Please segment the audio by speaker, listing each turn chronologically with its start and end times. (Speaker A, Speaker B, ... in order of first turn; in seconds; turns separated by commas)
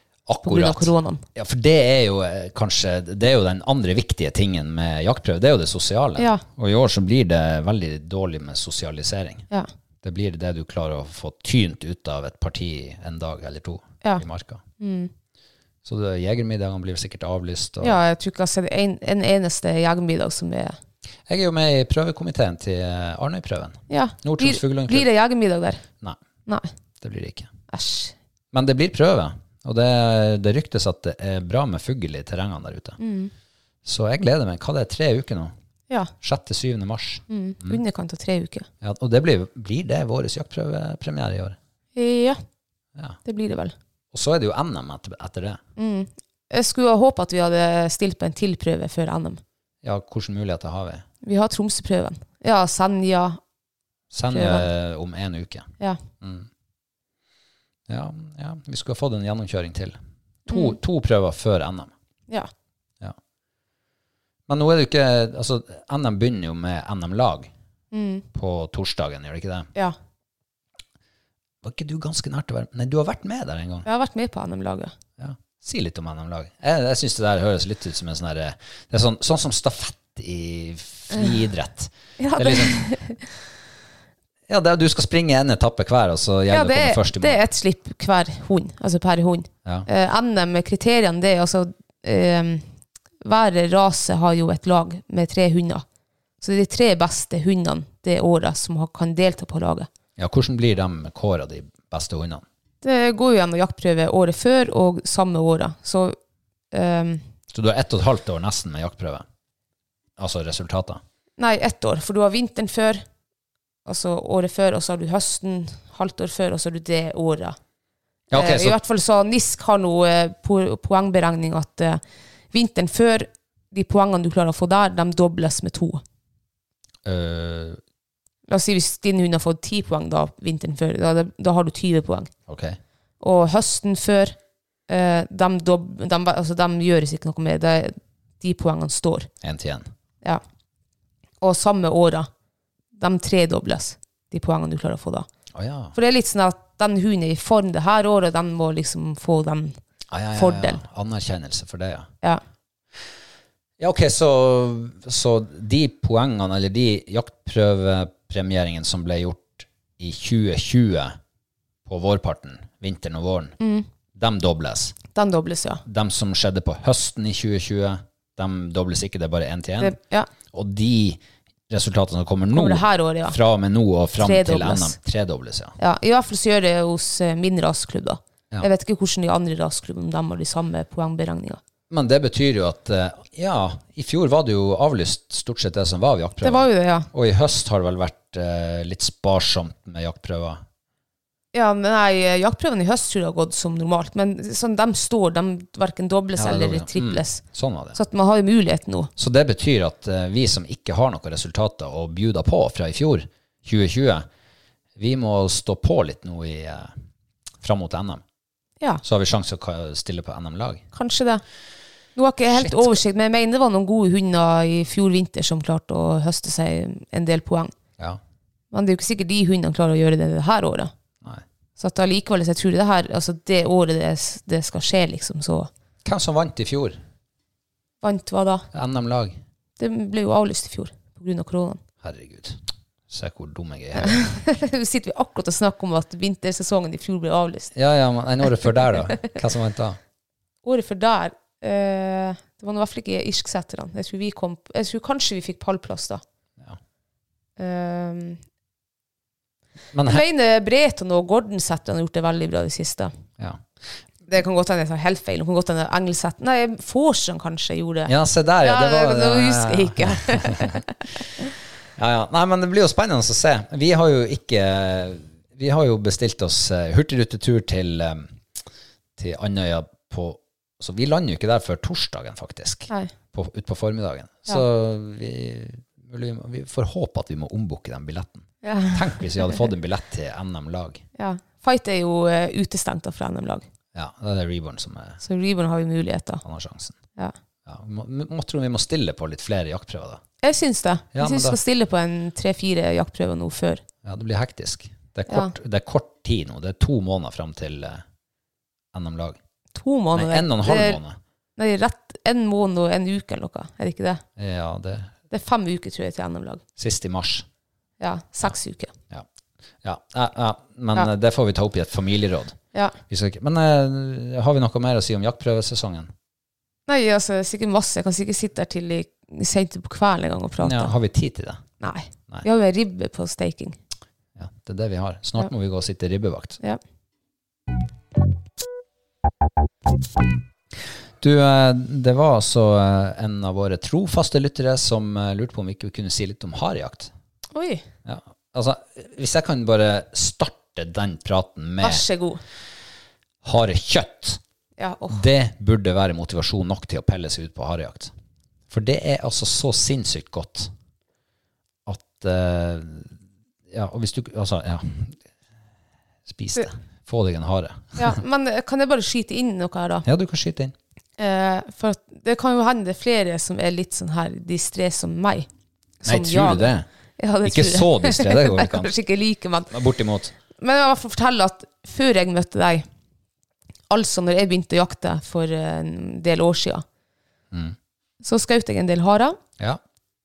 Speaker A: 0.3-9.4, Speaker B: 0.4-1.2, Speaker B: 6.2-6.4, Speaker A: 10.0-14.6, Speaker B: 14.8-15.1, Speaker A: 15.8-18.0, Speaker B: 17.8-20.8, Speaker A: 21.3-25.1, Speaker B: 23.9-25.8, Speaker A: 27.0-27.5, Speaker B: 27.7-28.1, Speaker A: 28.5-33.0, Speaker B: 33.0-33.3, Speaker A: 33.8-35.5, Speaker A: 36.2-37.8, Speaker B: 37.3-38.7, Speaker A: 38.8-41.6, Speaker B: 42.0-42.4, Speaker B: 43.2-43.7, Speaker A: 44.1-45.6, Speaker B: 45.8-49.4, Speaker A: 49.8-51.0, Speaker B: 51.2-53.4, Speaker A: 54.1-55.7, Speaker B: 54.3-54.7, Speaker A: 56.2-56.5, Speaker A: 57.9-61.9, Speaker B: 60.5-60.8, Speaker A: 64.5-67.5, Speaker B: 67.9-68.2, Speaker A: 68.3-69.7, Speaker A: 71.6-73.8, Speaker B: 73.8-74.9, Speaker A: 75.2-82.8, Speaker B: 82.2-83.2, Speaker A: 84.5-87.4, Speaker B: 86.5-92.6, Speaker B: 93.2-95.8, Speaker B: 96.4-99.9, Speaker A: 100.2-102.4, Speaker B: 102.8-106.2, Speaker B: 106.7-107.2, Speaker A: 107.5-109.2, Speaker A: 110.2-111.0, Speaker B: 111.4-113.0, Speaker B: 113.8-117.6, Speaker A: 118.3-118.8, Speaker B: 118.3-122.0, Speaker B: 122.5-126.0, Speaker A: 127.0-127.8, Speaker B: 128.5-132.3, Speaker A: 132.5-132.8, Speaker B: 133.2-134.3, Speaker B: 134.9-139.3, Speaker A: 139.4-139.9, Speaker B: 141.4-142.3, Speaker B: 142.9-145.2, Speaker A: 145.5-145.9, Speaker B: 145.9-149.8, Speaker A: 150.1-152.1, Speaker B: 150.3-150.8, Speaker A: 153.8-161.2, Speaker A: 161.8-163.6, Speaker B: 163.6-163.9, Speaker A: 164.1-164.9, Speaker B: 165.1-165.8, Speaker A: 165.8-175.7, Speaker B: 169.8-170.3, Speaker B: 172.5-173.4, Speaker B: 174.2-174.9, Speaker B: 175.8-181.6, Speaker A: 181.9-190.6, Speaker B: 186.4-187.1, Speaker B: 191.5-197.4, Speaker A: 196.3-198.0, Speaker B: 197.9-199.1, Speaker A: 199.2-204.3, Speaker A: 204.9-206.9, Speaker A: 207.6-208.2, Speaker A: 209.0-210.8, Speaker B: 210.9-211.4, Speaker B: 212.2-217.7, Speaker A: 212.5-213.0, Speaker B: 218.7-220.9, Speaker B: 221.8-225.7, Speaker A: 226.0-227.0, Speaker B: 228.0-228.7, Speaker A: 228.7-229.4, Speaker B: 229.8-231.8, Speaker A: 232.0-234.3, Speaker B: 233.9-237.7, Speaker A: 237.7-240.0, Speaker B: 240.6-246.2, Speaker B: 247.6-248.4, Speaker A: 249.9-250.2, Speaker B: 250.1-253.1, Speaker A: 253.4-253.6, Speaker B: 254.3-260.8, Speaker A: 258.1-260.8, Speaker A: 262.0-268.4, Speaker A: 269.2-281.0, Speaker B: 278.6-279.6, Speaker B: 281.2-283.6, Speaker A: 283.9-285.2, Speaker B: 285.2-286.4, Speaker A: 286.4-286.9, Speaker A: 287.6-290.2, Speaker B: 290.4-293.8, Speaker A: 291.1-291.6, Speaker A: 294.0-298.0, Speaker A: 298.9-299.4, Speaker B: 299.7-301.0, Speaker A: 300.1-301.2, Speaker B: 301.6-304.2, Speaker A: 304.4-305.1, Speaker B: 305.3-306.6, Speaker A: 306.8-307.4, Speaker B: 308.0-308.9, Speaker A: 309.8-312.6, Speaker A: 313.1-316.1, Speaker B: 316.9-320.9, Speaker A: 320.6-321.6, Speaker B: 321.8-323.8, Speaker A: 324.4-326.6, Speaker A: 331.2-337.1, Speaker B: 337.5-337.8, Speaker A: 338.0-342.0, Speaker B: 341.8-342.4, Speaker A: 343.4-344.4, Speaker B: 344.8-345.2, Speaker A: 345.1-348.1, Speaker A: 348.7-350.7, Speaker A: 351.9-353.1, Speaker A: 353.7-355.1, Speaker A: 356.2-358.2, Speaker B: 358.0-360.1, Speaker A: 360.0-360.7, Speaker B: 361.2-365.5, Speaker B: 366.0-369.7, Speaker A: 366.0-366.9, Speaker A: 367.4-368.9, Speaker A: 369.7-370.3, Speaker B: 370.6-372.9, Speaker B: 373.9-376.8, Speaker B: 378.2-379.4